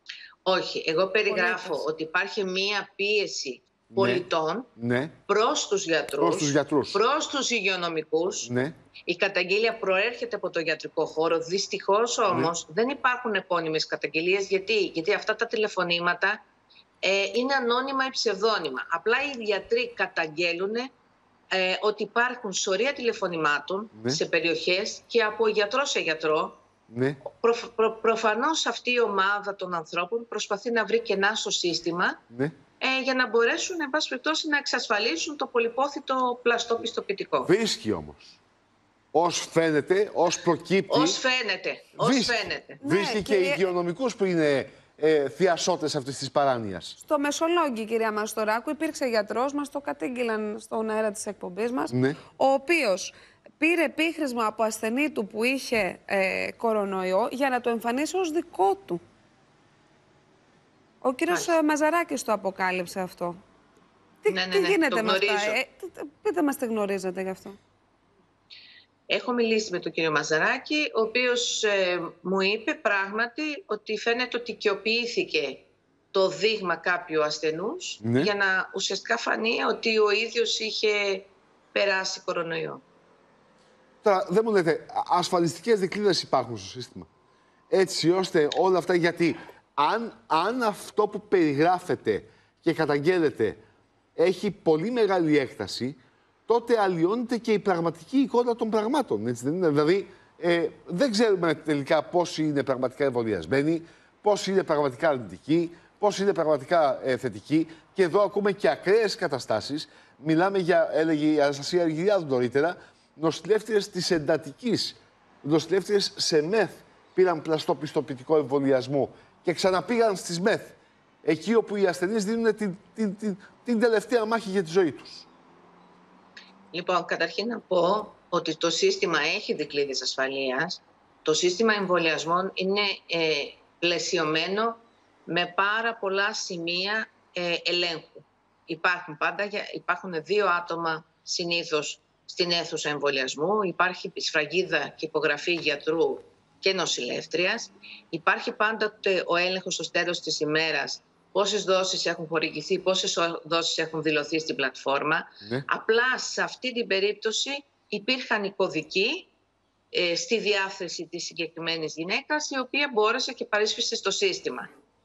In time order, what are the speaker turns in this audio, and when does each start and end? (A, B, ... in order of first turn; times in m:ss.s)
0:00.4-0:04.7 A
0:01.3-0:01.9 B
0:03.9-0:04.2 C
0:04.8-0:05.2 C
0:05.3-0:08.5 A
0:06.2-0:07.0 C
0:08.5-0:08.7 C
0:09.1-0:16.4 A
0:17.0-0:20.9 A
0:21.5-0:26.6 A
0:23.9-0:24.2 C
0:26.9-0:27.2 C
0:27.2-0:32.2 A
0:32.8-0:37.5 A
0:37.4-0:38.4 C
0:39.1-0:41.2 C
0:40.9-0:42.8 A
0:42.0-0:47.0 C
0:42.8-0:43.6 B
0:47.0-0:59.0 B
0:51.9-0:52.2 C
1:01.0-1:03.4 B
1:04.2-1:07.6 B
1:04.3-1:05.6 A
1:09.1-1:22.8 A
1:18.0-1:18.3 C
1:24.0-1:27.1 C
1:27.7-1:33.6 C
1:34.2-1:36.0 C
1:36.5-2:05.3 C
2:06.7-2:39.3 A
2:39.9-2:44.7 A